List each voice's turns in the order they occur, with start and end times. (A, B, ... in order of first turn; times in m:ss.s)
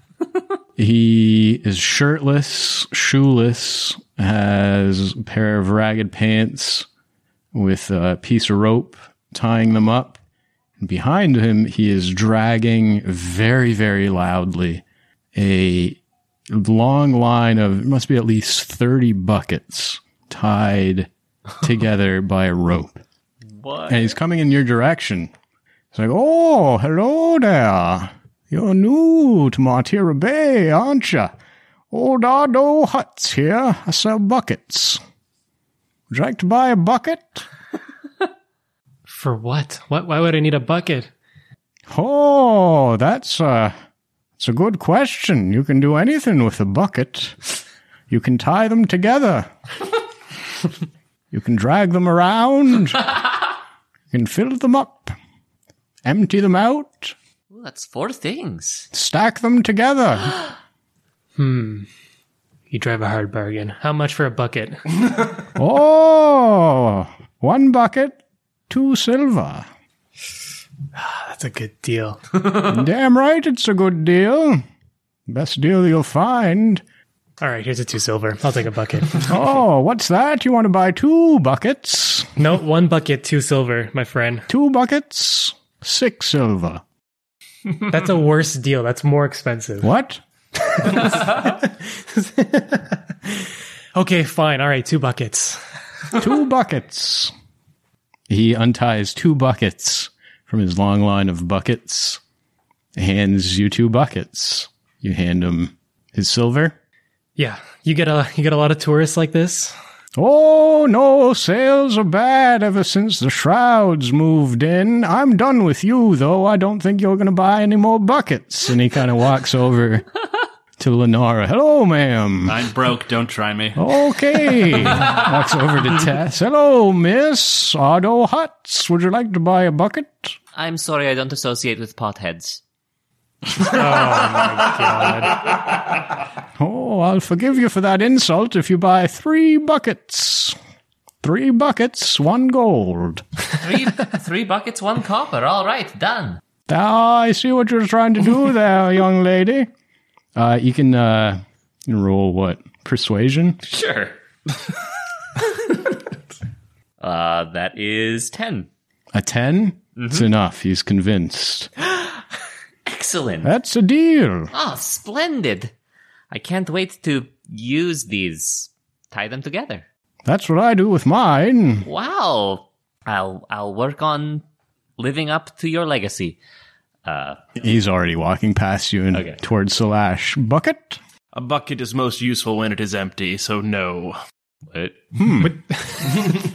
0:00.8-0:06.9 A
0:07.5-0:10.2 A
0:10.8-0:21.1 A
0:21.6-0:23.0 A
0:23.6-0:24.1 B
0:23.9-0:25.3 A
0:25.9-0:31.3 A
0:31.9-0:35.0 A
0:36.1-0:37.4 A
0:39.1-0:41.1 C
0:41.9-0:43.7 A
0:44.4-0:49.5 A
0:51.3-0:53.4 A
0:54.1-0:55.1 A
0:56.0-0:57.1 A
0:57.5-0:58.9 B
0:58.9-1:00.4 A
1:01.4-1:01.9 C
1:02.7-1:05.3 C
1:05.6-1:09.7 A
1:10.9-1:12.5 C
1:12.5-1:14.6 A
1:15.3-1:16.8 A
1:17.4-1:19.3 C
1:19.2-1:22.3 A
1:22.4-1:24.5 C
1:24.5-1:26.8 A
1:27.8-1:29.9 C
1:29.8-1:30.2 A
1:30.7-1:35.8 C
1:36.1-1:37.3 A
1:38.3-1:42.2 A
1:42.9-1:46.8 A
1:47.4-1:49.7 C
1:50.2-2:00.1 A
2:00.8-2:02.6 A
2:02.4-2:03.8 D
2:03.7-2:10.3 A
2:04.6-2:05.1 D
2:10.5-2:12.6 B
2:13.6-2:15.4 C
2:16.6-2:20.6 A
2:21.2-2:23.2 A
2:23.6-2:26.4 B
2:26.7-2:29.7 A
2:30.3-2:33.6 A
2:33.6-2:34.2 B
2:37.0-2:38.7 B
2:39.1-2:41.7 A
2:40.0-2:40.2 B
2:42.8-2:43.5 B
2:43.4-2:44.5 A
2:44.5-2:45.7 B
2:46.3-2:49.8 B
2:50.2-2:51.9 A
2:51.8-2:54.4 B
2:55.0-2:56.4 B
2:57.0-2:57.4 B
2:57.6-3:01.0 A
2:59.1-2:59.4 B
3:01.3-3:04.2 E
3:04.7-3:05.0 B
3:05.2-3:05.6 A
3:05.7-3:06.0 C